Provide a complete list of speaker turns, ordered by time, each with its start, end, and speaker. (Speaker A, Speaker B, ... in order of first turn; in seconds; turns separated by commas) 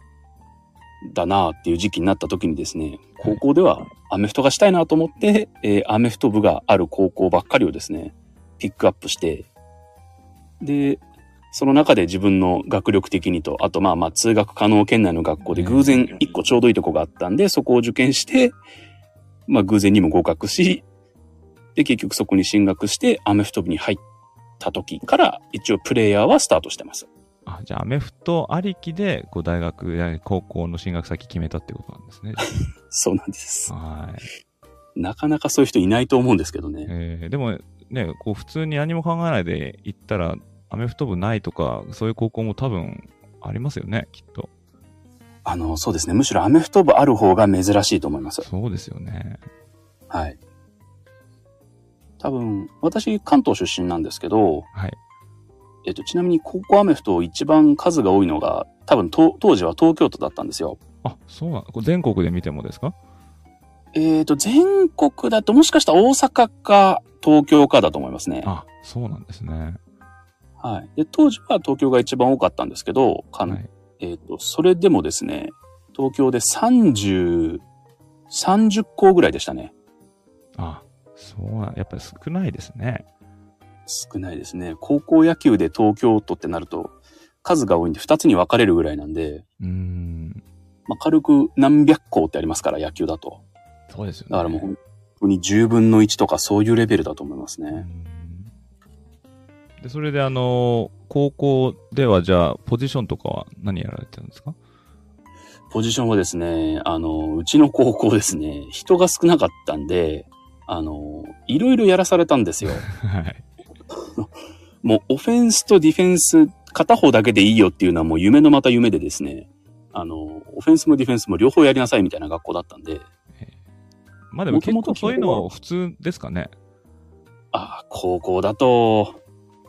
Speaker A: 1.0-9.5, Speaker A: 10.6-18.6, Speaker B: 15.5-16.1, Speaker A: 19.5-20.8, Speaker A: 21.7-24.0, Speaker A: 24.6-27.1, Speaker B: 27.4-32.5, Speaker A: 32.6-33.7, Speaker B: 33.7-34.3, Speaker A: 35.0-36.9, Speaker B: 36.9-44.5, Speaker A: 45.4-48.5, Speaker B: 48.4-49.4, Speaker A: 50.1-50.4, Speaker A: 52.2-54.6, Speaker A: 55.8-60.8, Speaker B: 61.0-62.9, Speaker A: 63.9-68.5, Speaker B: 68.4-69.8, Speaker A: 70.6-77.6, Speaker A: 78.3-79.7, Speaker B: 80.5-83.0, Speaker A: 83.9-89.4, Speaker B: 89.6-90.4, Speaker A: 90.9-93.4, Speaker B: 93.9-94.7, Speaker A: 94.3-97.8, Speaker B: 97.7-98.5, Speaker B: 99.8-104.5, Speaker A: 105.7-112.8, Speaker B: 112.6-113.5, Speaker A: 114.0-123.1, Speaker B: 124.3-126.5, Speaker A: 124.5-125.5, Speaker A: 127.5-129.2